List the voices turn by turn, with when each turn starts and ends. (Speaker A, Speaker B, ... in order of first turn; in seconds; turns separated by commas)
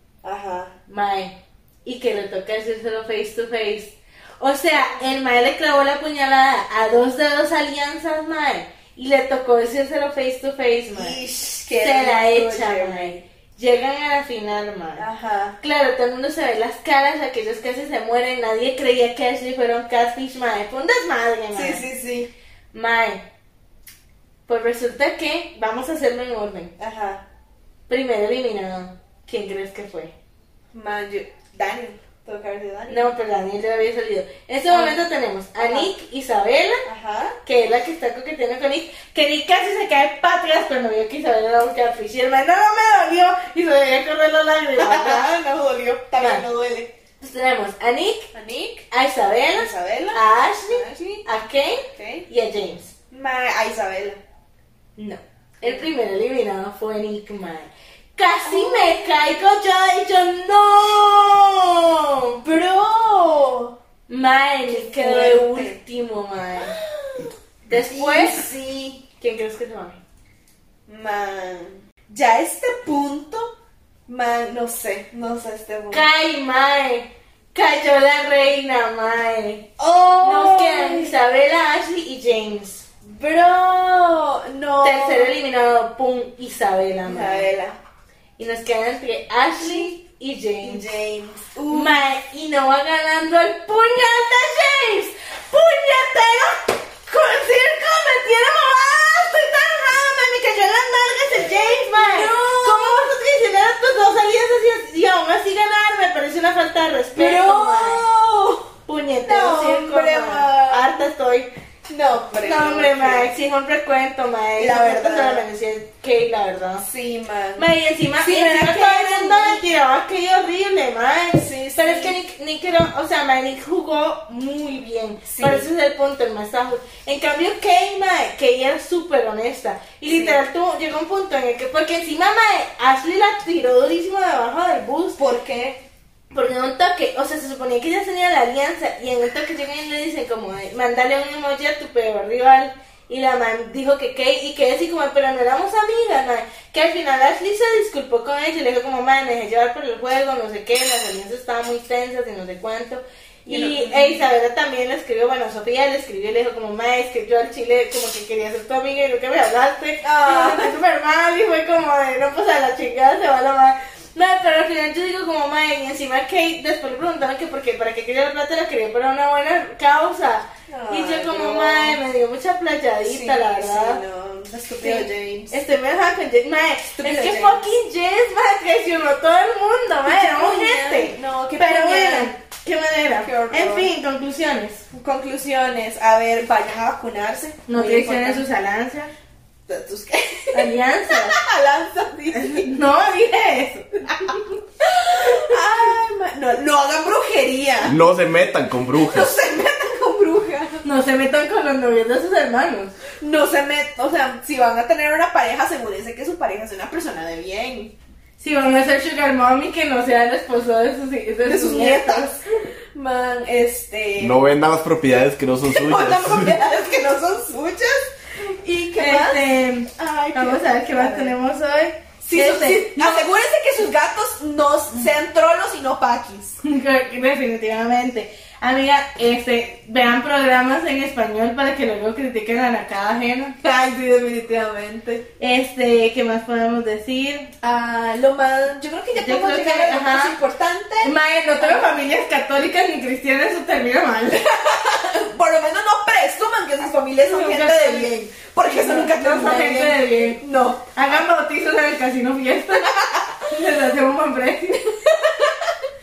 Speaker A: 0.2-0.7, Speaker B: 0.9-11.2, Speaker A: 4.8-5.0, Speaker A: 10.9-13.2, Speaker B: 11.8-15.1, Speaker A: 15.0-15.6, Speaker B: 15.6-21.8, Speaker A: 21.5-22.3, Speaker B: 22.7-23.2, Speaker B: 24.5-26.7, Speaker A: 26.8-27.2, Speaker B: 27.9-30.1, Speaker A: 30.7-33.0, Speaker B: 32.9-36.8, Speaker A: 34.7-35.0, Speaker A: 35.6-35.9, Speaker A: 36.8-37.4, Speaker B: 37.4-45.3, Speaker A: 44.8-46.9, Speaker B: 46.2-46.4, Speaker B: 47.2-48.3, Speaker A: 48.3-48.8, Speaker B: 48.9-52.9, Speaker A: 49.5-51.2, Speaker A: 51.9-52.3, Speaker A: 53.1-54.2, Speaker B: 55.0-62.4, Speaker A: 58.4-59.0, Speaker A: 62.4-63.8, Speaker B: 64.1-66.8, Speaker A: 64.7-65.8, Speaker A: 66.6-69.0, Speaker B: 67.7-68.5, Speaker B: 69.2-70.0, Speaker A: 70.9-73.5, Speaker A: 74.1-76.0, Speaker B: 75.9-79.7, Speaker A: 79.8-81.2, Speaker B: 80.2-82.8, Speaker A: 83.0-85.4, Speaker B: 84.8-87.5, Speaker A: 87.0-87.8, Speaker B: 88.4-90.9, Speaker A: 89.6-89.9, Speaker A: 90.6-91.9, Speaker B: 91.7-108.0, Speaker A: 101.3-103.1, Speaker A: 107.1-108.7, Speaker B: 108.9-111.5, Speaker A: 109.2-111.1, Speaker A: 111.9-113.3, Speaker B: 112.4-116.8, Speaker A: 114.6-115.5, Speaker A: 116.8-117.6, Speaker B: 117.6-135.2, Speaker A: 118.2-119.6, Speaker A: 121.3-122.2, Speaker A: 125.3-125.7, Speaker A: 130.0-130.4, Speaker A: 135.2-135.8, Speaker B: 136.3-174.0, Speaker A: 153.4-154.2, Speaker A: 160.0-160.8, Speaker A: 170.7-172.0, Speaker A: 173.0-175.6, Speaker B: 174.8-184.8, Speaker A: 177.0-177.6, Speaker A: 180.1-182.3, Speaker A: 183.1-183.9, Speaker A: 184.9-188.4, Speaker B: 187.7-189.1, Speaker A: 189.7-192.7, Speaker B: 190.5-191.4, Speaker B: 192.3-194.5, Speaker A: 194.8-197.9, Speaker B: 195.1-195.5, Speaker C: 197.8-199.3, Speaker A: 199.0-200.8, Speaker B: 200.8-202.9, Speaker A: 203.2-207.9, Speaker B: 208.4-212.4, Speaker A: 211.4-214.4, Speaker C: 214.2-216.5, Speaker A: 215.6-219.4, Speaker B: 219.0-223.3, Speaker A: 219.9-221.4, Speaker A: 222.2-226.6, Speaker B: 226.6-233.6, Speaker A: 233.6-235.3, Speaker B: 235.4-237.5, Speaker A: 237.6-241.9, Speaker B: 239.1-240.4, Speaker B: 241.0-244.4, Speaker A: 244.4-251.2, Speaker B: 247.2-248.1, Speaker B: 248.6-250.4, Speaker B: 250.9-255.0, Speaker A: 252.8-253.4, Speaker A: 255.0-255.7